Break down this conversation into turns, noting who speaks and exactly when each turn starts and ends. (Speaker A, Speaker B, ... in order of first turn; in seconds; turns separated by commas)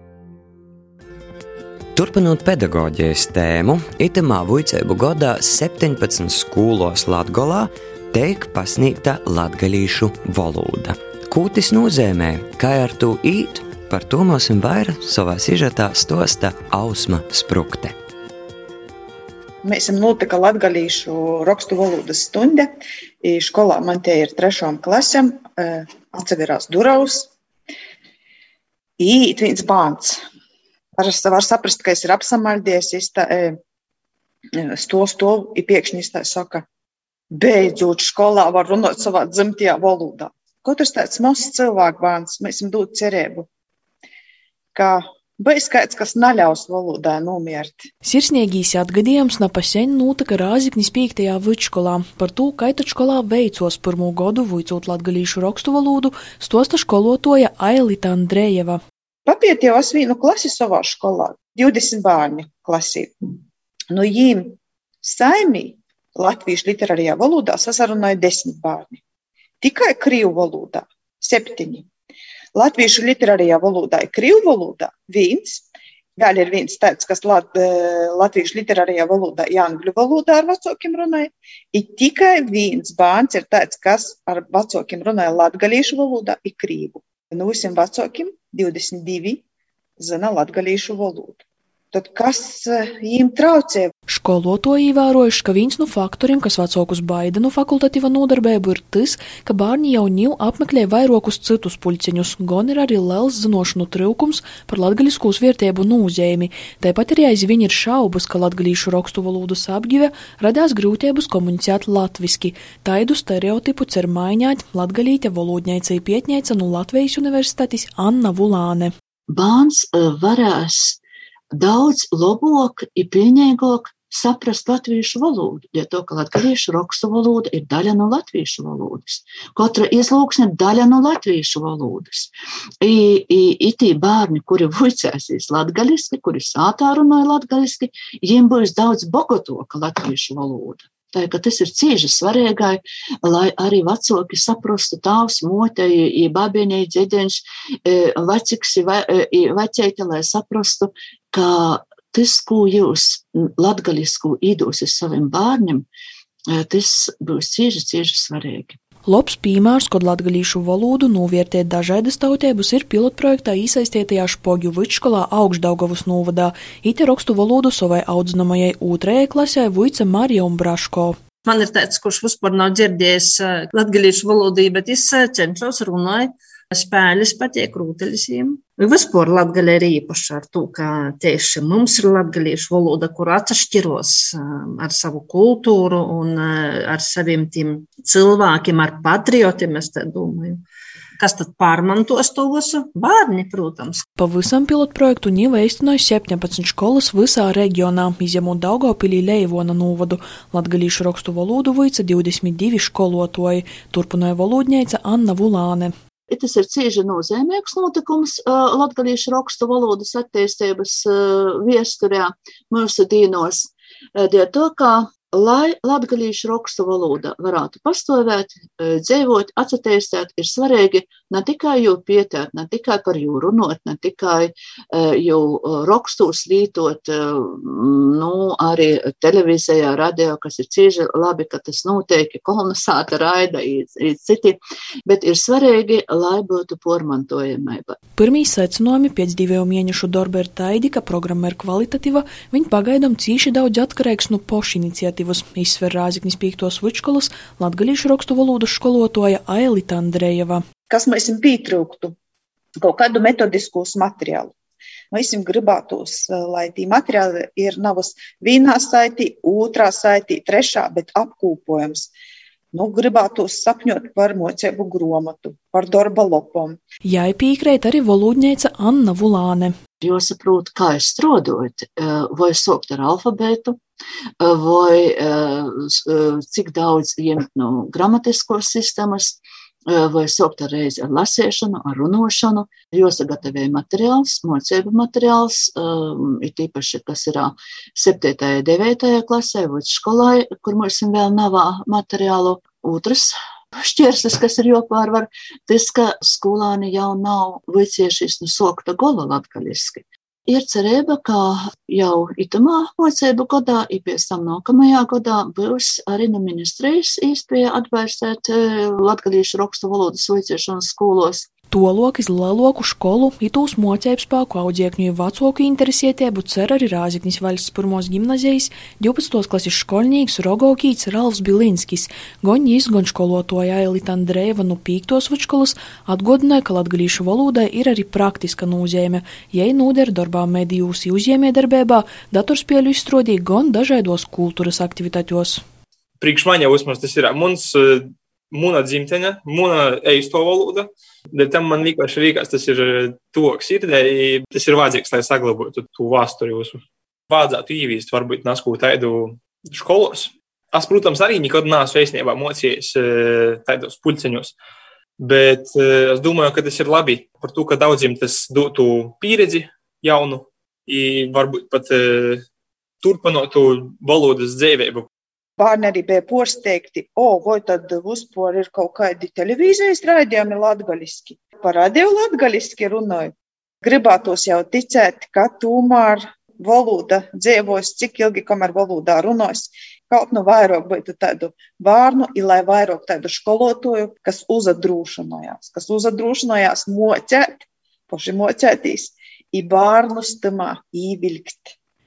Speaker A: 1.9-17.9, Speaker B: 19.6-22.7, Speaker B: 23.2-27.3, Speaker B: 29.0-30.2, Speaker B: 31.0-33.5, Speaker B: 34.6-36.6, Speaker B: 37.3-43.5, Speaker B: 44.7-47.9, Speaker C: 48.0-58.8, Speaker B: 59.2-63.1, Speaker B: 63.9-69.0, Speaker B: 69.6-71.9, Speaker B: 72.5-75.6, Speaker B: 76.2-89.4, Speaker B: 90.0-93.9, Speaker C: 94.1-118.9, Speaker D: 119.3-121.0, Speaker D: 121.5-155.9, Speaker D: 156.5-158.8, Speaker C: 159.1-171.2, Speaker E: 171.4-190.6, Speaker E: 191.2-194.0, Speaker C: 194.2-205.9, Speaker D: 206.3-238.0, Speaker C: 238.2-250.6, Speaker B: 250.9-252.1, Speaker B: 252.8-254.5, Speaker B: 255.1-262.1, Speaker B: 262.7-266.8, Speaker C: 267.0-269.8, Speaker D: 270.0-273.8, Speaker D: 274.4-311.5, Speaker C: 311.7-335.6, Speaker F: 336.2-354.6, Speaker F: 355.2-362.4, Speaker F: 363.0-365.1, Speaker B: 365.6-391.8